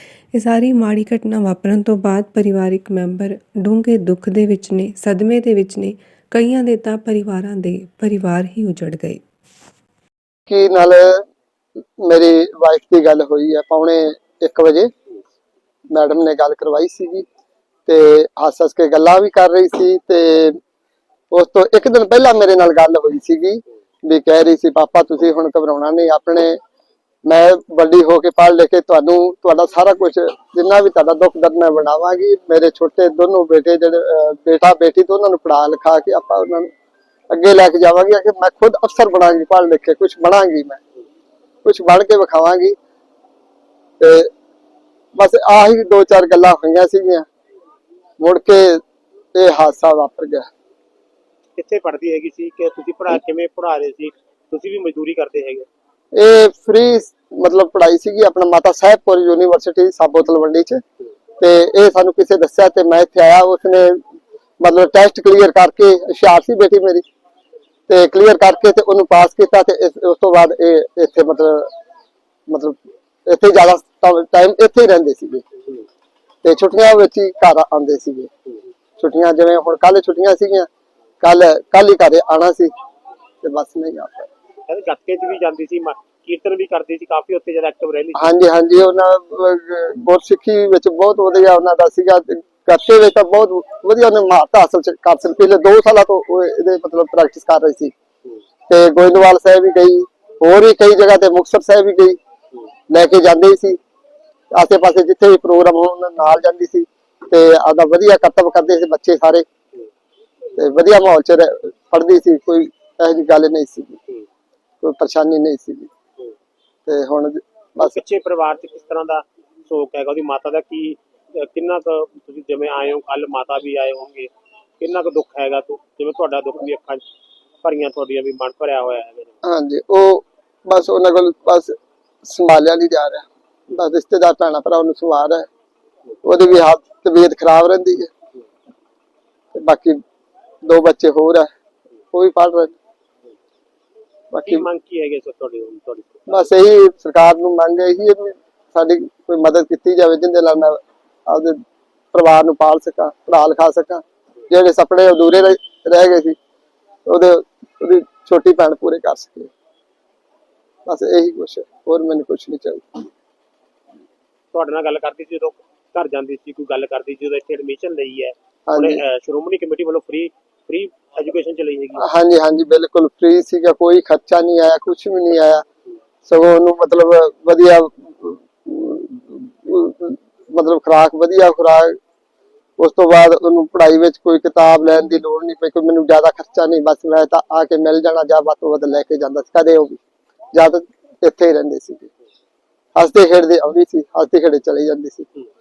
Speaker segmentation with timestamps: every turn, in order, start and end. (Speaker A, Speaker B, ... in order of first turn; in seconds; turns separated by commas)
Speaker A: 0.3-9.2, Speaker B: 10.5-11.2, Speaker B: 12.0-14.9, Speaker B: 15.9-17.2, Speaker B: 17.9-20.6, Speaker B: 21.3-26.6, Speaker B: 27.2-36.7, Speaker B: 37.3-40.8, Speaker B: 41.6-42.8, Speaker B: 44.0-44.3, Speaker B: 45.1-47.2, Speaker B: 48.2-48.8, Speaker B: 49.3-50.5, Speaker C: 51.5-55.7, Speaker B: 56.1-60.8, Speaker B: 61.4-64.0, Speaker B: 64.6-67.0, Speaker B: 67.9-71.7, Speaker B: 72.5-75.4, Speaker B: 76.4-78.3, Speaker B: 79.0-80.7, Speaker B: 81.2-82.7, Speaker B: 83.4-84.3, Speaker C: 84.7-88.3, Speaker B: 88.1-97.9, Speaker B: 98.7-102.2, Speaker B: 102.9-103.8, Speaker B: 104.5-109.5, Speaker B: 110.5-114.0, Speaker B: 114.8-115.9, Speaker B: 116.9-118.0, Speaker C: 117.8-127.0, Speaker C: 127.6-129.3, Speaker B: 129.4-135.5, Speaker B: 136.2-138.1, Speaker B: 139.5-140.0, Speaker B: 140.6-141.5, Speaker B: 142.1-142.7, Speaker B: 144.3-144.7, Speaker C: 144.4-146.4, Speaker B: 146.3-151.6, Speaker B: 152.1-156.4, Speaker B: 157.1-159.5, Speaker B: 160.8-163.1, Speaker C: 164.5-172.1, Speaker B: 168.7-169.0, Speaker B: 171.9-175.6, Speaker B: 176.2-182.0, Speaker B: 182.8-190.0, Speaker B: 190.5-192.1, Speaker B: 192.9-195.3